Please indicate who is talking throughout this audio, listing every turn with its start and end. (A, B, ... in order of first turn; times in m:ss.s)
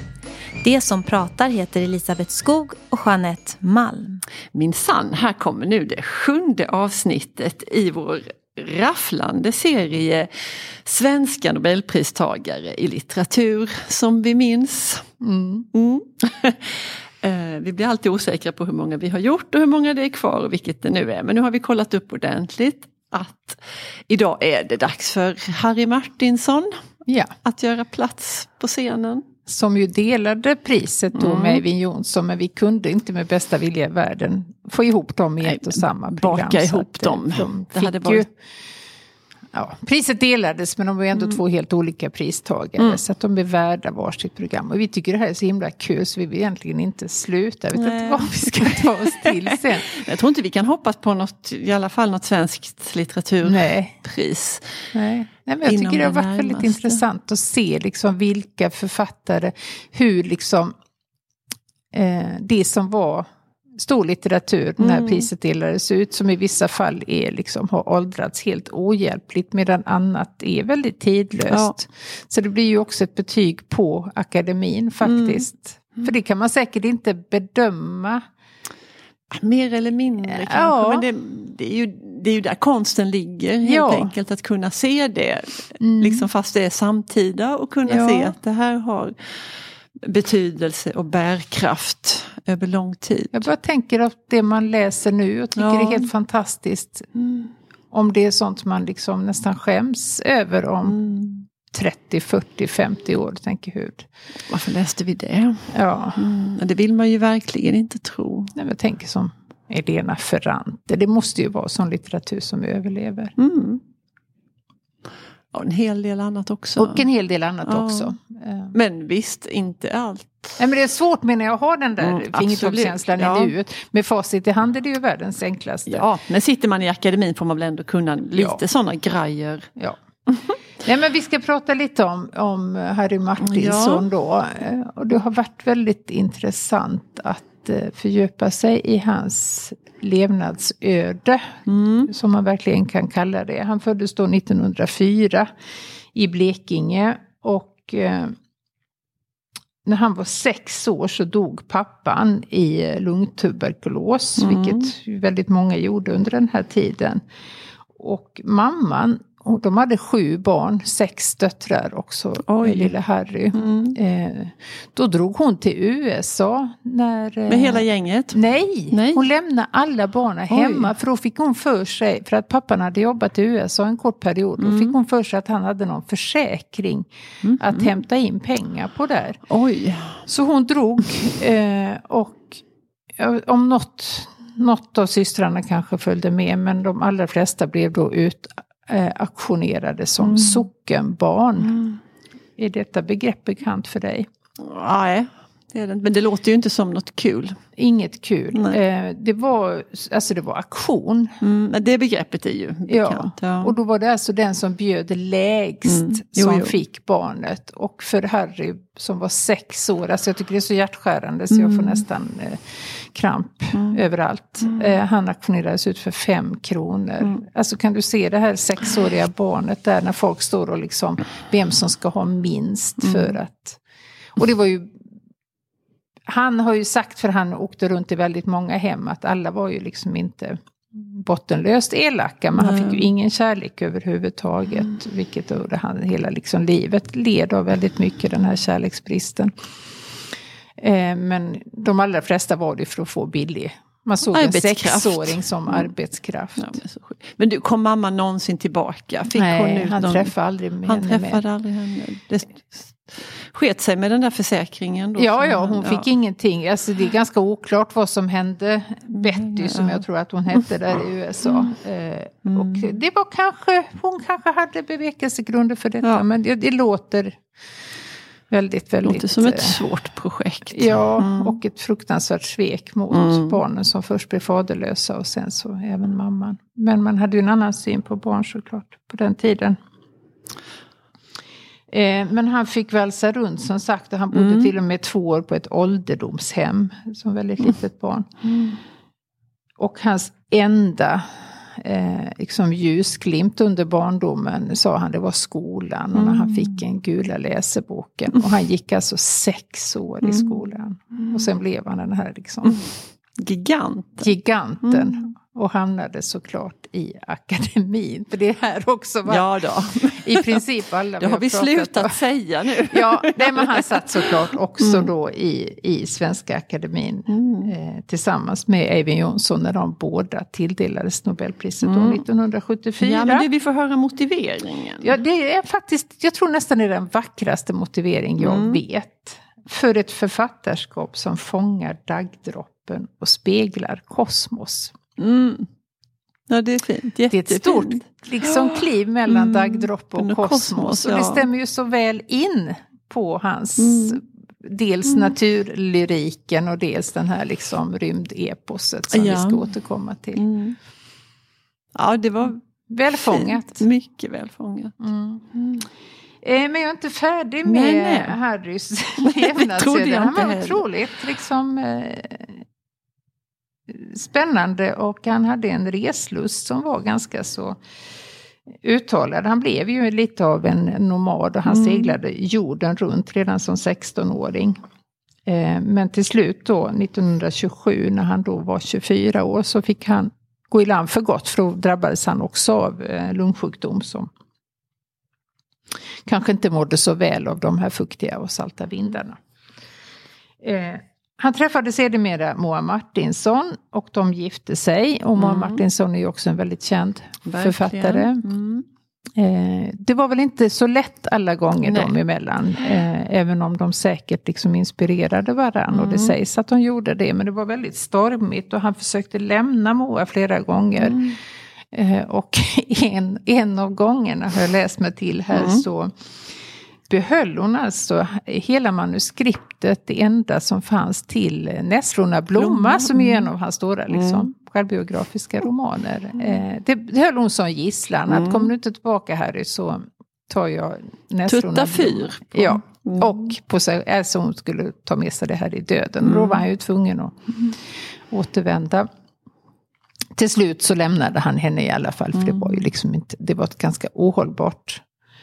0:00.6-0:04.2 A
0:04.5-0:15.1 B
0:15.2-0:15.7 C
0:15.7-0:26.8 B
0:27.1-0:27.3 C
0:27.4-0:29.3 B
0:29.5-0:38.3 C
0:31.1-0:31.6 B
0:35.4-0:38.2 B
0:39.5-0:49.9 C
0:47.7-0:54.8 B
0:53.4-0:54.0 C
0:54.9-1:00.7 C
0:55.6-0:57.0 B
1:01.9-1:18.2 C
1:04.8-1:05.3 B
1:11.5-1:11.8 B
1:15.0-1:15.4 B
1:19.3-1:33.5 B
1:20.3-1:21.0 C
1:23.6-1:24.1 C
1:25.8-1:26.3 C
1:27.9-1:28.3 C
1:33.3-1:37.1 C
1:35.6-1:36.1 B
1:37.2-1:37.5 B
1:37.9-1:41.0 C
1:40.8-1:41.5 B
1:41.7-1:44.1 C
1:44.5-1:48.5 B
1:45.7-1:46.2 C
1:48.6-1:53.3 C
1:53.4-1:53.8 B
1:55.5-1:57.0 B
1:56.8-1:58.7 C
1:57.7-1:58.2 B
1:58.7-2:00.6 B
2:00.6-2:06.0 C
2:02.0-2:03.5 B
2:05.9-2:09.7 B
2:08.3-2:08.6 C
2:10.8-2:25.5 C
2:13.4-2:14.1 B
2:21.7-2:22.1 B
2:26.2-2:28.4 C
2:29.8-2:37.2 C
2:34.4-2:34.9 B
2:38.0-2:59.4 C
2:42.5-2:42.9 B
2:43.5-2:44.0 B
2:47.5-2:49.2 B
2:50.5-2:50.9 B
2:54.6-2:55.0 B
2:57.4-2:57.9 B
2:59.5-3:00.2 B
3:00.2-3:02.6 C
3:03.2-3:11.8 C
3:10.2-3:10.7 B
3:11.6-3:12.0 B
3:12.6-3:14.3 C
3:14.6-3:17.6 B
3:17.8-3:21.3 C
3:21.4-3:23.8 B
3:22.9-3:43.8 C
3:25.9-3:26.8 B
3:31.5-3:32.0 B
3:33.7-3:34.0 B
3:34.6-3:34.9 B
3:43.0-3:43.3 B
3:44.4-3:45.0 C
3:46.3-3:59.5 C
3:52.6-3:53.1 B
4:00.8-4:06.8 C
4:04.3-4:05.9 B
4:06.6-4:10.3 B
4:09.3-4:11.4 C
4:10.8-4:16.1 B
4:15.2-4:27.4 C
4:19.1-4:20.0 B
4:22.4-4:23.0 B
4:28.5-4:29.8 C
4:29.0-4:31.6 B
4:30.7-4:39.8 C
4:33.1-4:33.6 B
4:41.9-4:48.5 C
4:44.3-4:44.7 B
4:49.8-5:02.9 C
4:56.1-4:56.8 B
5:00.2-5:00.6 B
5:03.4-5:04.3 B
5:04.2-5:12.2 C
5:04.9-5:05.2 B
5:09.2-5:10.6 B
5:11.2-5:14.3 B
5:12.8-5:23.5 C
5:14.8-5:15.1 B
5:17.3-5:17.7 B
5:21.8-5:22.2 B
5:23.0-5:25.2 B
5:25.0-5:34.9 C
5:28.4-5:28.8 B
5:35.2-5:35.7 B
5:36.5-5:41.4 B
5:37.3-5:50.4 C
5:43.8-5:44.2 B
5:49.1-5:49.7 B
5:50.3-5:50.8 B
5:51.9-5:52.6 B
5:52.9-5:53.8 C
5:53.2-5:55.0 B
5:55.0-5:55.4 C
5:55.5-5:55.8 B
5:56.4-6:02.6 C
5:57.6-5:58.4 B
5:59.2-6:00.8 B
6:03.9-6:07.8 C
6:08.7-6:14.8 C
6:11.6-6:12.2 B
6:15.4-6:24.3 C
6:26.2-6:29.4 C
6:30.6-6:38.4 C
6:35.4-6:35.8 B
6:37.4-6:38.8 B
6:39.4-6:51.4 C
6:41.8-6:42.2 B
6:45.9-6:46.3 B
6:51.0-6:51.4 B
6:51.9-6:56.1 C
6:55.5-6:55.8 B
6:57.1-7:17.8 C
7:02.6-7:03.5 B
7:04.1-7:04.5 B
7:08.3-7:08.7 B
7:11.5-7:13.5 B
7:16.2-7:16.6 B
7:18.3-7:19.1 C
7:20.4-7:25.0 C
7:22.4-7:22.9 B